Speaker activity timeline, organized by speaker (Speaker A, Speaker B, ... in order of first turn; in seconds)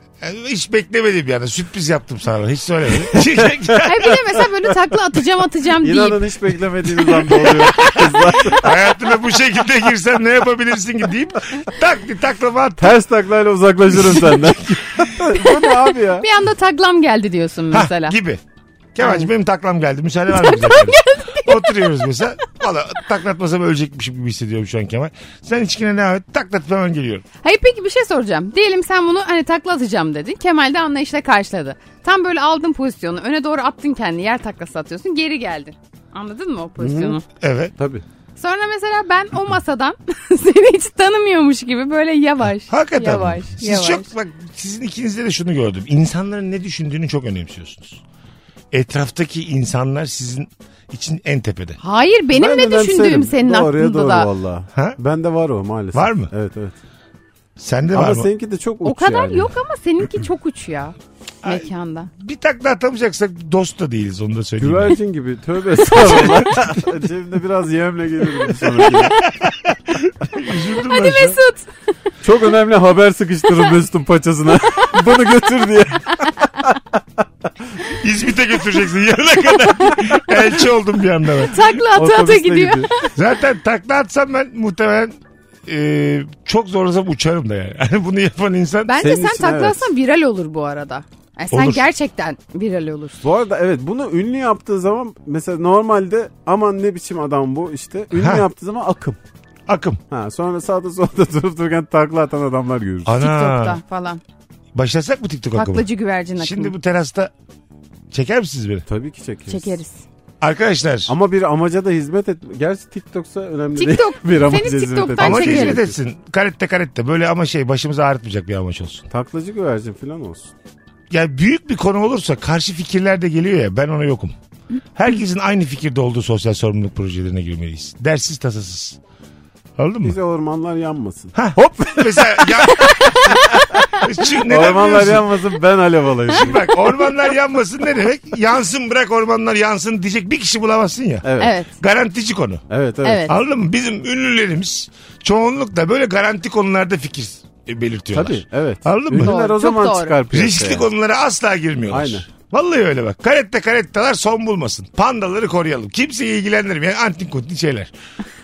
Speaker A: 0.2-4.3, 7.2-12.9, 14.0-14.5, 17.7-18.4, 18.9-27.2, 37.4-37.7, 42.7-48.0, 48.7-51.8, 55.9-56.3, 57.6-58.3, 61.4-65.0, 66.0-66.5, 69.2-71.4, 77.9-81.6, 83.2-85.2, 85.7-89.0, 91.5-91.8, 98.1-98.5, 99.7-100.0, 103.0-103.8, 104.7-107.3, 108.1-108.8, 110.4-111.1, 115.2-119.1, 121.1-124.3, 124.9-129.0, 129.8-130.2, 131.3-135.3, 136.3-142.6, 143.3-149.3, 150.3-157.9
Speaker B: 3.1-3.7, 5.8-8.8, 12.8-16.3, 36.8-37.2, 37.8-38.0, 52.3-56.8, 57.9-59.5, 64.6-69.2, 72.2-77.0, 81.9-82.9, 89.0-89.9, 93.2-99.2, 100.1-103.1, 108.9-109.8, 111.1-116.0, 119.1-120.5, 130.0-131.3, 134.4-136.6, 141.2-141.6, 142.7-143.3, 148.1-150.9, 151.9-152.3
Speaker C: 3.8-6.3, 16.2-18.2, 19.0-19.3, 20.3-21.9, 27.4-37.2, 38.4-44.1, 51.8-54.3, 58.8-62.1, 70.8-71.7, 81.5-83.1, 88.9-93.2, 103.2-104.2, 105.5-106.7, 109.5-110.0, 113.8-115.8, 132.7-133.8, 141.4-141.7, 143.0-143.3, 149.2-150.2